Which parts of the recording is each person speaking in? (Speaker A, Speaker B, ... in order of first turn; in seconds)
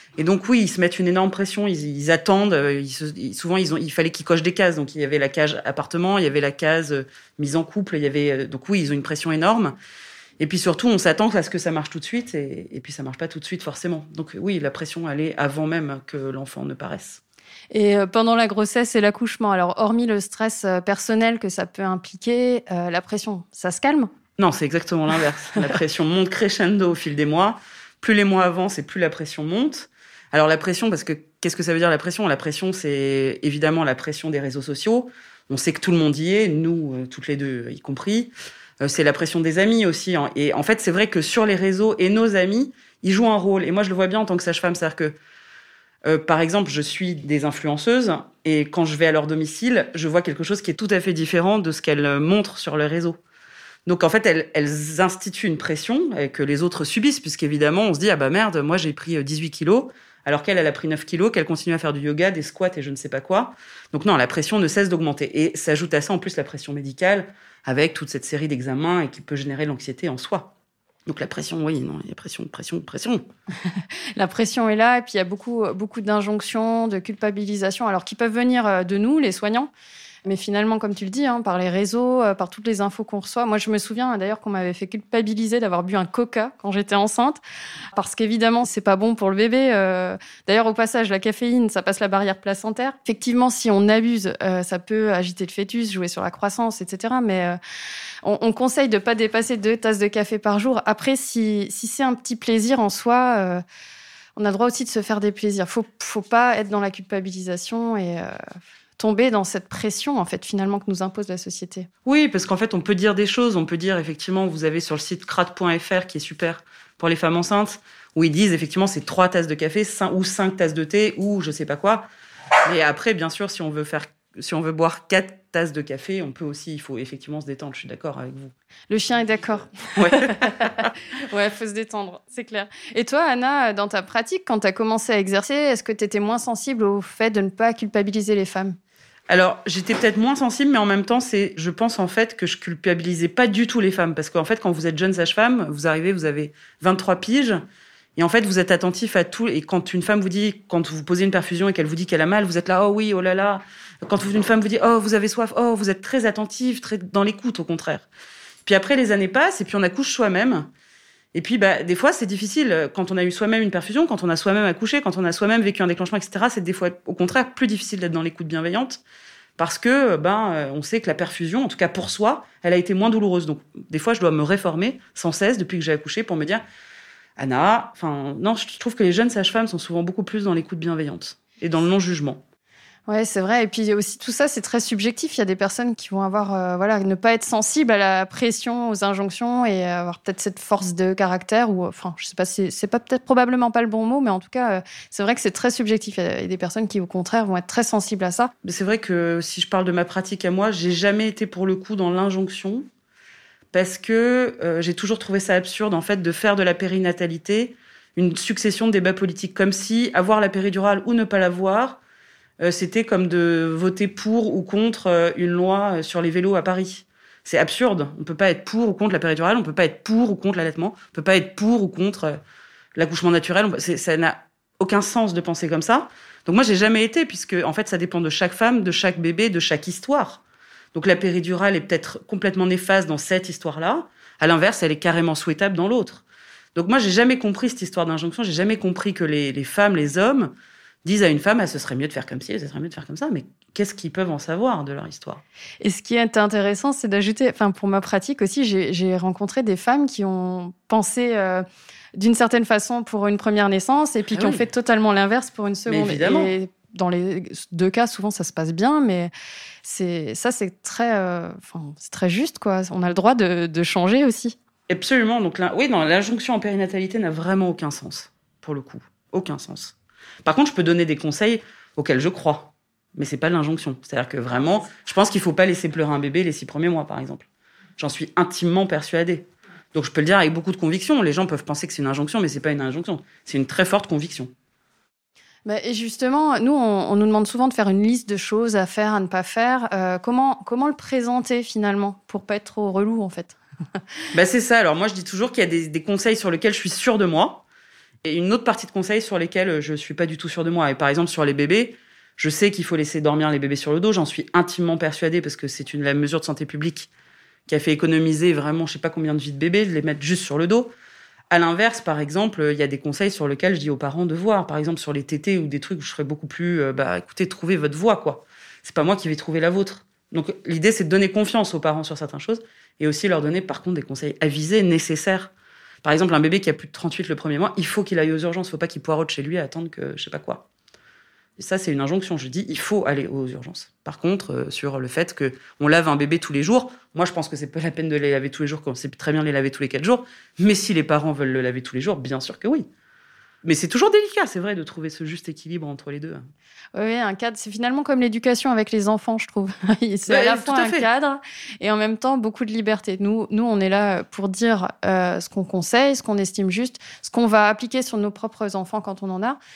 Speaker A: 0.2-9.8, 10.4-17.2, 24.4-45.1, 46.0-53.2, 53.9-70.5, 71.0-73.2, 112.0-122.1, 122.6-128.5, 130.0-130.8, 139.3-147.6, 148.2-158.1, 158.6-160.7, 161.3-169.0, 169.6-176.6, 177.4-182.4, 198.6-202.8, 203.7-212.0, 212.6-222.4, 222.9-230.4, 230.9-236.2, 236.7-240.5, 241.0-245.4, 254.3-254.6, 255.9-256.5, 264.9-269.9, 270.4-277.4, 278.0-284.5, 294.3-297.6, 298.2-307.1, 307.7-310.9, 311.5-325.5, 326.0-330.6, 331.6-342.9, 343.6-346.4, 350.3-351.1
Speaker B: 17.7-24.1, 73.8-79.7, 80.2-87.4, 87.9-97.6, 98.2-103.6, 104.3-111.9, 128.9-138.8, 183.1-198.5, 245.8-259.3, 259.8-264.6, 285.6-293.6, 346.9-359.6